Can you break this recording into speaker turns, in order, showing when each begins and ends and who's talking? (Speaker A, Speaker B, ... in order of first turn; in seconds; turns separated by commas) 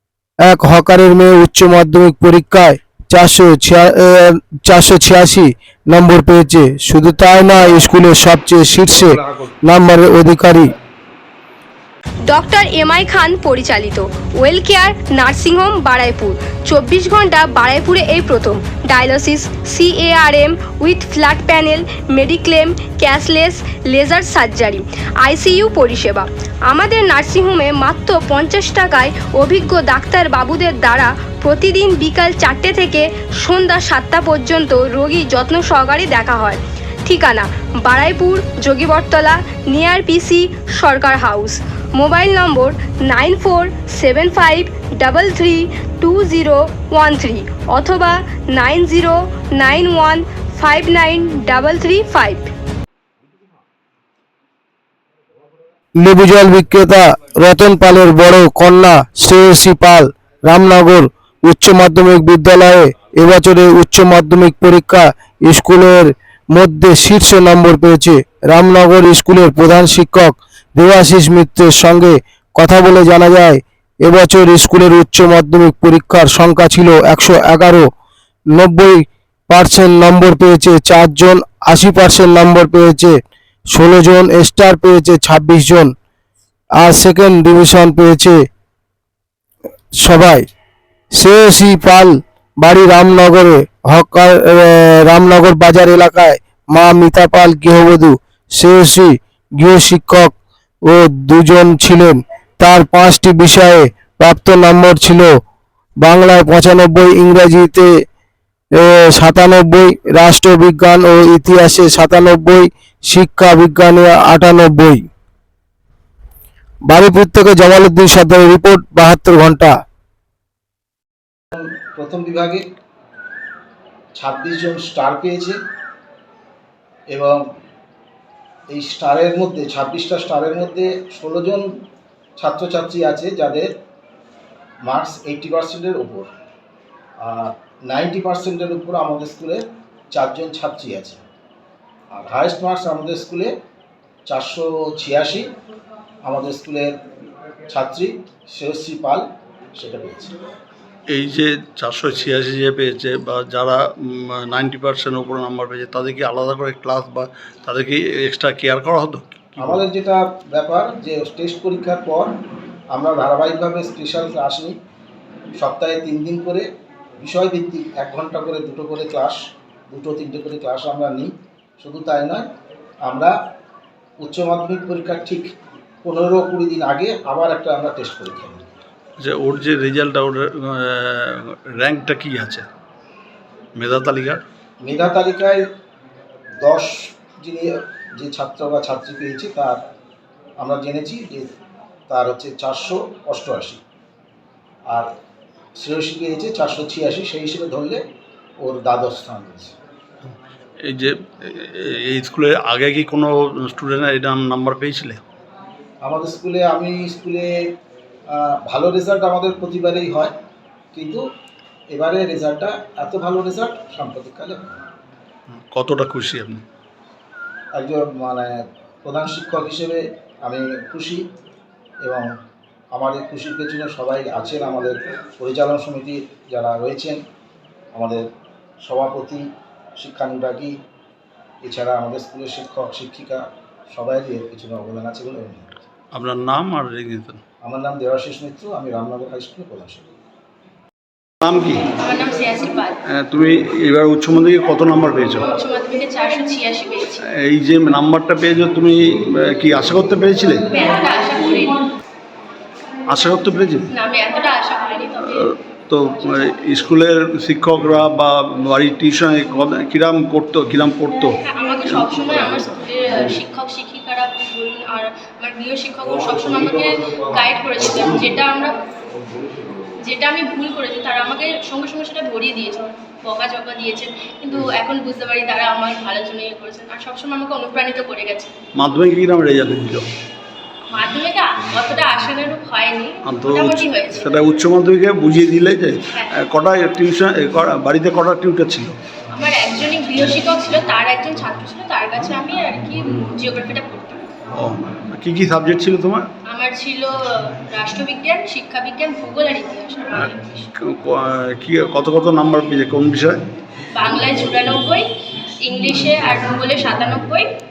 Speaker A: 0.4-10.7, Speaker B: 9.0-9.5, Speaker C: 12.3-52.5, Speaker A: 56.0-77.9, Speaker A: 78.5-83.2, Speaker A: 83.7-85.9, Speaker A: 86.8-88.4, Speaker A: 90.0-90.5, Speaker A: 91.2-100.3, Speaker A: 100.9-105.3, Speaker A: 106.0-108.0, Speaker A: 108.8-115.0, Speaker A: 116.9-119.8, Speaker B: 121.5-122.6, Speaker B: 124.1-125.6, Speaker B: 127.1-127.4, Speaker B: 128.7-131.7, Speaker B: 132.4-133.7, Speaker B: 134.8-136.3, Speaker B: 137.2-141.2, Speaker B: 142.1-143.5, Speaker B: 144.3-145.5, Speaker B: 146.2-146.9, Speaker B: 147.7-149.2, Speaker B: 149.8-150.3, Speaker D: 151.1-159.8, Speaker B: 159.6-162.3, Speaker B: 162.9-164.7, Speaker B: 165.6-166.7, Speaker B: 167.2-172.4, Speaker B: 173.0-173.3, Speaker B: 174.2-175.5, Speaker B: 176.0-178.7, Speaker D: 179.2-182.7, Speaker D: 183.8-184.4, Speaker B: 184.8-185.6, Speaker B: 186.6-189.8, Speaker B: 190.6-191.5, Speaker B: 192.1-193.8, Speaker B: 195.8-198.0, Speaker B: 198.6-199.7, Speaker D: 200.8-205.2, Speaker B: 206.0-207.5, Speaker B: 208.3-210.3, Speaker B: 210.9-211.2, Speaker B: 211.9-214.8, Speaker D: 215.5-216.6, Speaker B: 217.7-218.5, Speaker B: 219.0-221.2, Speaker B: 222.9-227.2, Speaker B: 227.9-228.2, Speaker B: 228.8-229.4, Speaker B: 230.0-230.7, Speaker B: 231.6-235.8, Speaker D: 236.1-237.4, Speaker B: 237.6-240.1, Speaker D: 241.4-241.9, Speaker E: 242.0-243.0, Speaker D: 243.1-245.5, Speaker E: 245.5-247.2, Speaker D: 247.3-250.7, Speaker E: 250.7-251.8, Speaker D: 253.1-253.9, Speaker E: 253.9-255.5, Speaker D: 255.9-261.4, Speaker E: 261.4-268.7, Speaker E: 270.0-278.5, Speaker D: 278.8-280.1, Speaker E: 280.9-284.5, Speaker D: 283.3-289.0, Speaker E: 289.3-294.2, Speaker D: 294.5-296.3, Speaker E: 296.5-300.7, Speaker D: 300.1-303.4, Speaker E: 303.9-305.1, Speaker E: 305.6-307.5